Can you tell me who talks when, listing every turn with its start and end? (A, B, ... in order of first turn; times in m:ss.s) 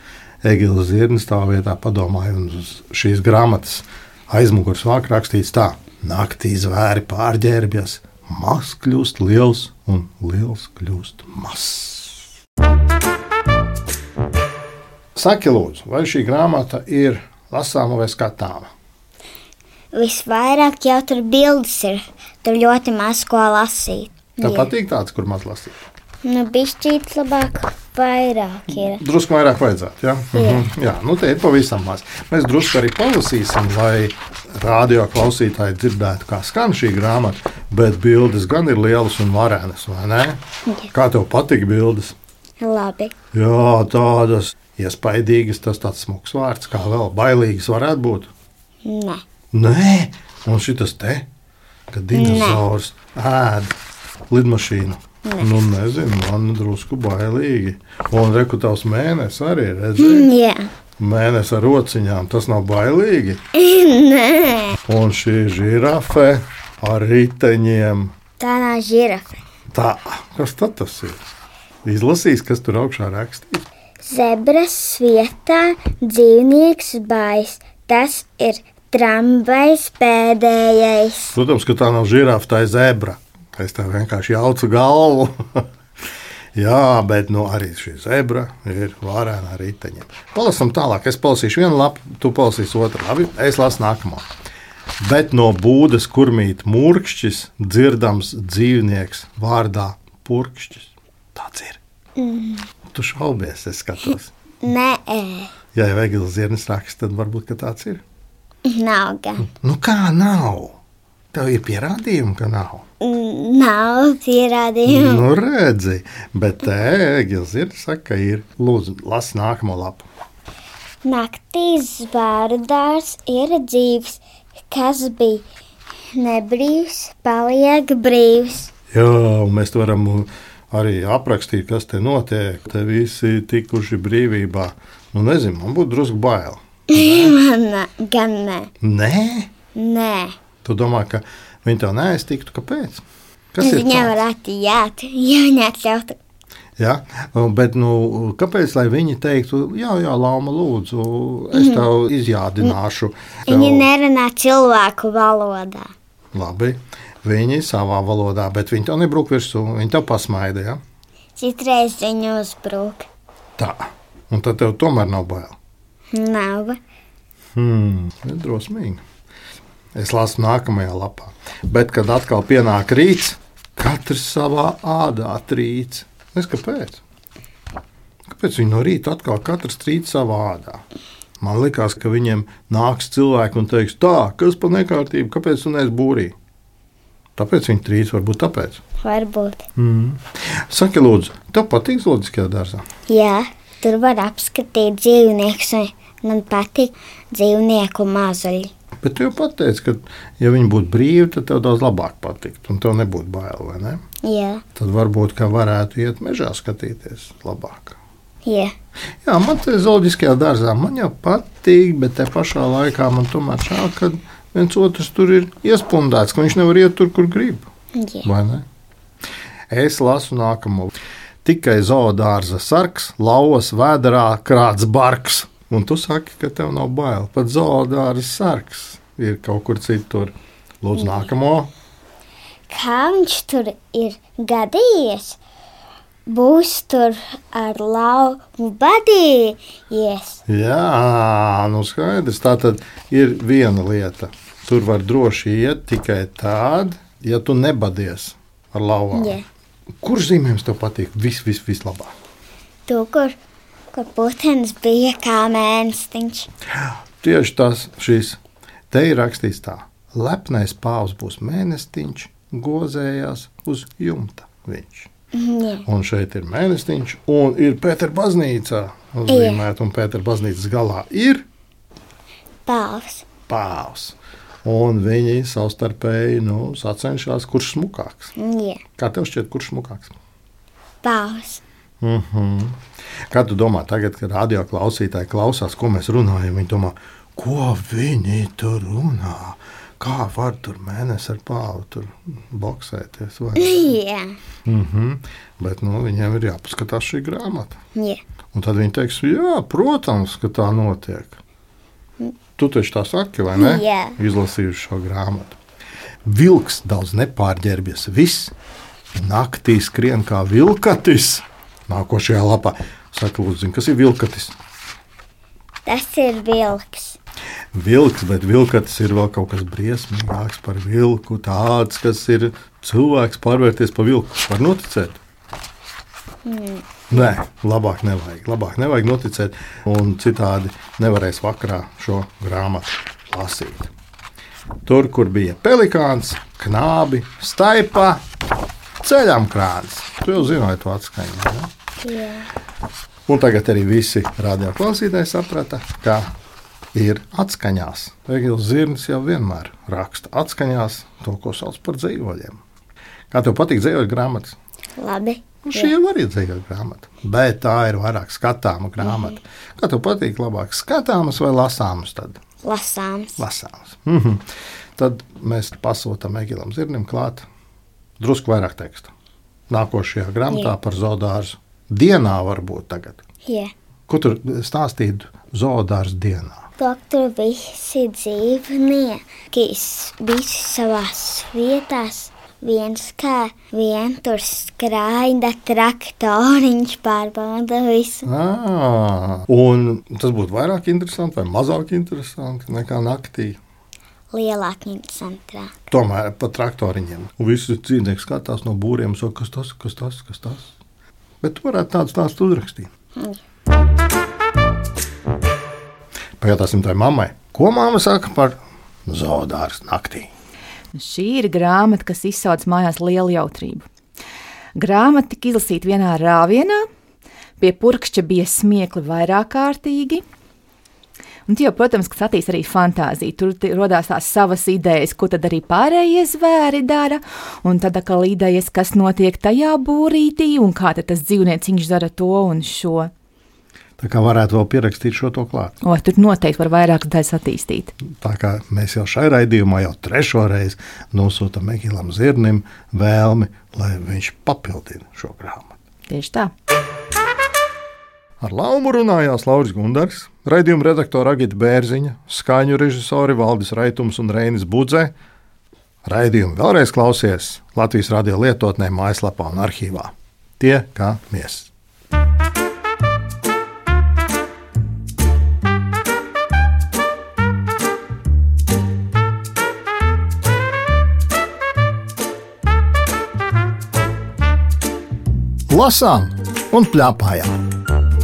0:00.4-0:12.2 A
0:15.1-0:18.7 A
0:19.9-0:24.7 B
0:24.4-0:25.8 A
0:26.2-0:29.0 B
0:28.7-0:42.1 A
0:30.3-0:30.7 B
0:42.6-0:43.1 B
0:43.3-0:48.3 A
0:48.8-0:49.2 B
0:49.5-0:51.2 A
0:51.9-0:53.7 A
0:52.1-0:52.6 B
0:54.3-1:00.3 A
0:55.2-0:55.5 B
1:00.0-1:00.7 B
1:01.0-1:03.4 A
1:03.5-1:04.8 B
1:04.9-1:08.1 A
1:08.4-1:09.4 B
1:09.7-1:11.3 A
1:11.8-1:13.6 A
1:14.0-1:21.3 B
1:21.3-1:25.6 A
1:26.6-1:34.3 A
1:35.0-1:41.8 A
1:42.2-1:42.7 B
1:42.9-1:44.3 A
1:44.6-1:45.5 B
1:45.7-1:48.0 A
1:48.6-1:49.5 B
1:49.5-1:50.8 A
1:51.3-1:52.8 A
1:53.0-1:55.2 B
1:54.8-2:00.1 A
2:01.0-2:05.4 B
2:06.1-2:08.7 B
2:08.9-2:17.4 A
2:16.9-2:18.7 B
2:18.8-2:19.5 A
2:19.7-2:20.3 B
2:20.6-2:24.1 A
2:23.6-2:26.2 B
2:26.8-2:33.9 A
2:31.5-2:31.8 B
2:33.5-2:35.9 B
2:36.3-2:40.8 A
2:41.4-2:43.0 B
2:43.6-2:45.6 A
2:46.1-2:46.8 B
2:47.5-2:49.0 A
2:49.9-2:57.0 A
2:58.3-3:00.8 A
3:01.4-3:06.3 A
3:07.4-3:08.8 A
3:09.0-3:09.6 B
3:09.8-3:12.8 A
3:13.1-3:18.7 B
3:19.0-3:24.0 A
3:24.2-3:24.6 B
3:24.8-3:28.0 A
3:28.4-3:28.7 B
3:29.2-3:37.7 A
3:38.0-3:38.3 B
3:38.2-3:38.6 A
3:39.7-3:51.7 A
3:51.0-3:51.3 B
3:52.7-3:55.4 B
3:56.3-4:00.4 B
4:00.5-4:09.4 A
4:09.1-4:09.4 B
4:10.0-4:12.1 A
4:12.9-4:13.4 B
4:13.9-4:16.5 B
4:17.2-4:18.4 A
4:18.9-4:25.1 A
4:25.3-4:25.8 B
4:25.8-4:31.4 A
4:29.3-4:29.6 B
4:32.6-4:33.2 B
4:33.5-4:38.3 A
4:38.4-4:38.8 B
4:39.0-4:40.1 A
4:41.0-4:41.6 B
4:42.0-4:53.9 A
4:53.6-4:54.4 B
4:54.6-4:57.8 A
4:58.0-4:58.2 B
4:58.5-5:01.4 A
5:02.6-5:05.6 A
5:03.5-5:04.2 B
5:06.2-5:08.5 A
5:09.1-5:14.5 A
5:15.8-5:17.2 B
5:17.7-5:25.2 A
5:26.4-5:27.3 B
5:27.1-5:33.9 A
5:34.8-5:38.2 A
5:39.0-5:41.7 A
5:42.0-5:42.5 B
5:43.3-5:46.3 A
5:46.9-5:52.6 A
5:53.3-5:54.6 A
5:55.0-5:55.9 B
5:55.6-6:02.4 A
5:59.0-5:59.4 B
6:02.6-6:03.4 B
6:03.4-6:04.4 A
6:05.0-6:07.5 A
6:08.2-6:09.1 A
6:09.7-6:13.2 A
6:13.4-6:13.7 B
6:14.1-6:16.7 A
6:16.8-6:28.3 B
6:28.2-6:33.6 A
6:34.3-6:35.7 B
6:35.9-6:40.7 A
6:41.4-6:42.9 A
6:43.2-6:43.4 B
6:46.4-6:50.3 A
6:50.9-6:53.8 C
6:54.8-6:56.8 C
6:57.6-7:00.2 C
7:01.5-7:13.1 C
7:14.0-7:15.8 A
7:15.8-7:17.9 C
7:18.0-7:25.7 A
7:26.1-7:26.5 C
7:28.4-7:35.1 A
7:36.0-7:41.7 A
7:55.7-7:57.6 A